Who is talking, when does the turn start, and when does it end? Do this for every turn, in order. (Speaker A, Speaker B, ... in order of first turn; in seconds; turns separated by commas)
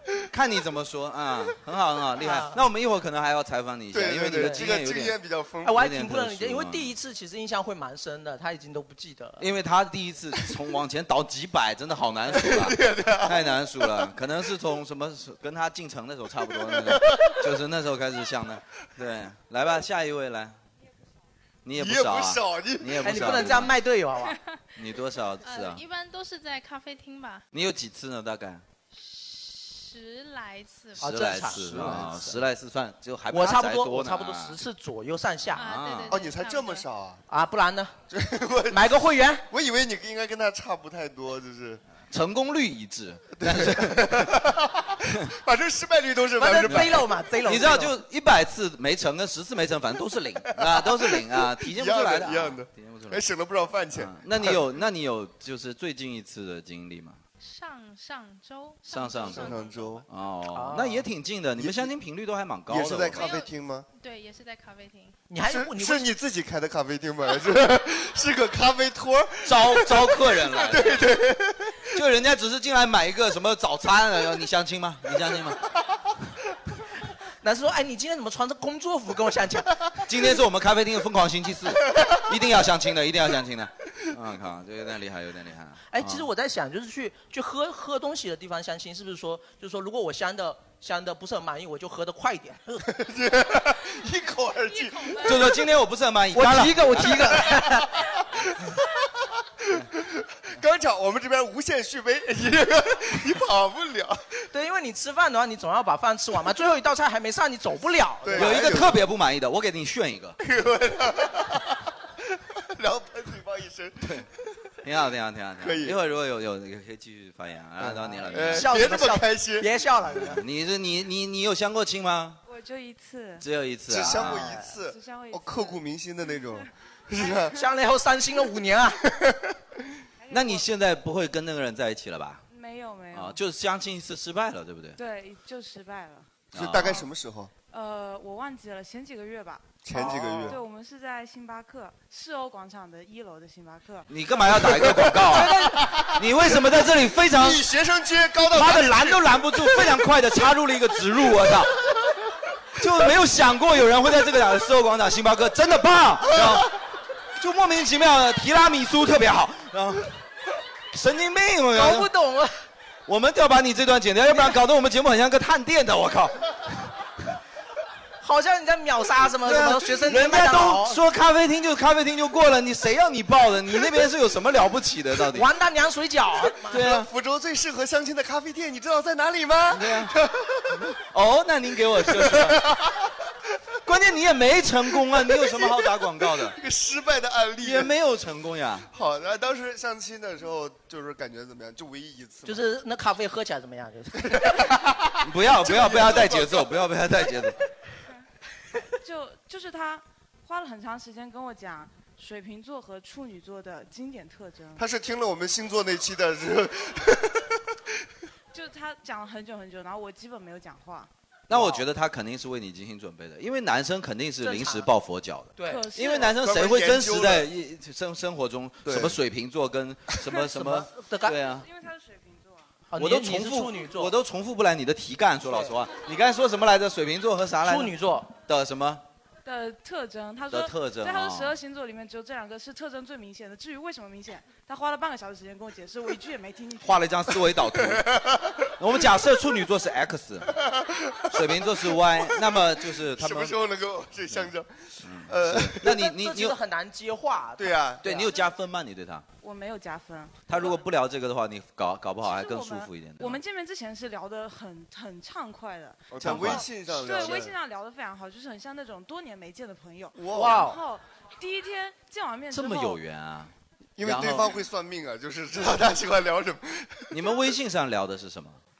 Speaker A: 0.2-5.2, Speaker B: 2.2-2.6, Speaker C: 3.9-5.9, Speaker B: 4.3-4.7, Speaker B: 5.7-9.4, Speaker A: 5.7-6.9, Speaker A: 9.4-20.6, Speaker C: 12.3-13.9, Speaker C: 16.9-17.3, Speaker A: 21.6-23.7, Speaker C: 21.8-23.4, Speaker B: 23.0-24.4, Speaker A: 24.8-25.8, Speaker D: 25.4-27.4, Speaker A: 27.5-28.6, Speaker D: 28.9-31.1, Speaker B: 31.0-32.4, Speaker A: 31.0-34.6, Speaker B: 33.3-35.6, Speaker D: 35.5-36.9, Speaker A: 35.6-36.3, Speaker C: 36.1-37.2, Speaker B: 37.3-38.0, Speaker C: 38.1-38.9, Speaker B: 38.7-39.4, Speaker C: 39.5-41.8, Speaker A: 42.1-44.2, Speaker C: 43.4-47.1, Speaker B: 46.4-47.9, Speaker A: 46.7-53.2, Speaker C: 50.6-54.6, Speaker A: 54.0-57.2, Speaker D: 57.4-60.0, Speaker A: 58.9-59.5, Speaker C: 59.2-60.1, Speaker A: 60.1-63.3, Speaker B: 60.5-61.1, Speaker C: 61.6-61.9, Speaker C: 62.7-63.9, Speaker D: 63.2-65.2, Speaker B: 65.3-66.1, Speaker C: 65.5-71.9, Speaker A: 69.5-71.0, Speaker A: 71.9-75.6, Speaker B: 77.4-79.8, Speaker A: 80.1-86.2, Speaker B: 85.9-92.9, Speaker C: 92.9-95.3, Speaker E: 94.7-95.4, Speaker A: 95.2-97.3, Speaker B: 96.3-97.9, Speaker C: 97.5-98.0, Speaker C: 99.7-104.3, Speaker B: 104.5-108.6, Speaker C: 108.2-109.0, Speaker A: 108.3-110.4, Speaker C: 110.4-111.8, Speaker C: 112.6-114.3, Speaker A: 114.8-118.8, Speaker C: 115.6-116.0, Speaker C: 117.9-119.7, Speaker B: 118.3-120.4, Speaker A: 120.2-122.4, Speaker E: 122.5-123.5, Speaker A: 123.4-124.5, Speaker C: 123.9-127.6, Speaker B: 124.2-124.6, Speaker E: 124.7-126.7, Speaker E: 127.2-127.5, Speaker B: 127.5-129.0, Speaker E: 130.2-130.7, Speaker A: 130.3-132.4, Speaker E: 132.5-133.4, Speaker A: 133.1-135.0, Speaker E: 135.0-136.3, Speaker A: 136.5-137.1, Speaker C: 136.5-137.5, Speaker E: 137.7-144.1, Speaker C: 139.8-140.6, Speaker B: 140.1-140.5, Speaker A: 144.1-145.6, Speaker C: 144.7-146.3, Speaker B: 145.3-145.8, Speaker A: 146.2-147.6, Speaker C: 147.3-149.8, Speaker A: 148.5-151.7, Speaker A: 152.8-156.7, Speaker A: 157.4-160.2, Speaker A: 160.9-162.1, Speaker B: 161.7-162.6, Speaker A: 163.1-166.4, Speaker B: 168.2-171.0, Speaker A: 169.4-175.5, Speaker B: 175.3-176.8, Speaker A: 176.7-177.1, Speaker C: 176.8-180.8, Speaker A: 179.7-180.1, Speaker A: 180.9-182.7, Speaker C: 182.1-183.1, Speaker A: 183.9-186.6, Speaker C: 185.1-185.9, Speaker C: 186.4-187.9, Speaker A: 187.6-188.9, Speaker C: 188.9-192.6, Speaker B: 192.4-194.7, Speaker C: 194.3-194.7, Speaker A: 195.2-197.6, Speaker C: 195.5-196.7, Speaker E: 199.0-204.9, Speaker C: 204.8-207.6, Speaker E: 208.5-211.1, Speaker A: 211.5-221.7, Speaker B: 211.5-211.8, Speaker B: 214.4-214.9, Speaker B: 215.6-215.9, Speaker E: 215.6-216.4, Speaker C: 216.2-217.5, Speaker C: 218.8-219.2, Speaker B: 220.5-221.4, Speaker E: 221.4-222.7, Speaker B: 222.9-224.1, Speaker A: 223.0-229.0, Speaker B: 225.5-225.8, Speaker B: 227.6-228.3, Speaker E: 229.4-237.4, Speaker A: 230.5-231.5, Speaker A: 236.8-238.1, Speaker C: 238.0-238.7, Speaker A: 238.8-240.5, Speaker C: 240.6-246.0, Speaker A: 241.3-243.6, Speaker A: 245.0-246.6, Speaker B: 246.0-248.3, Speaker C: 247.6-248.1, Speaker A: 248.0-249.2, Speaker E: 249.4-250.8, Speaker A: 250.5-253.4, Speaker E: 252.2-263.0, Speaker C: 256.1-257.5, Speaker A: 256.2-256.7, Speaker C: 260.1-260.7, Speaker B: 260.3-260.8, Speaker A: 262.5-264.5, Speaker C: 264.0-267.1, Speaker A: 267.1-268.6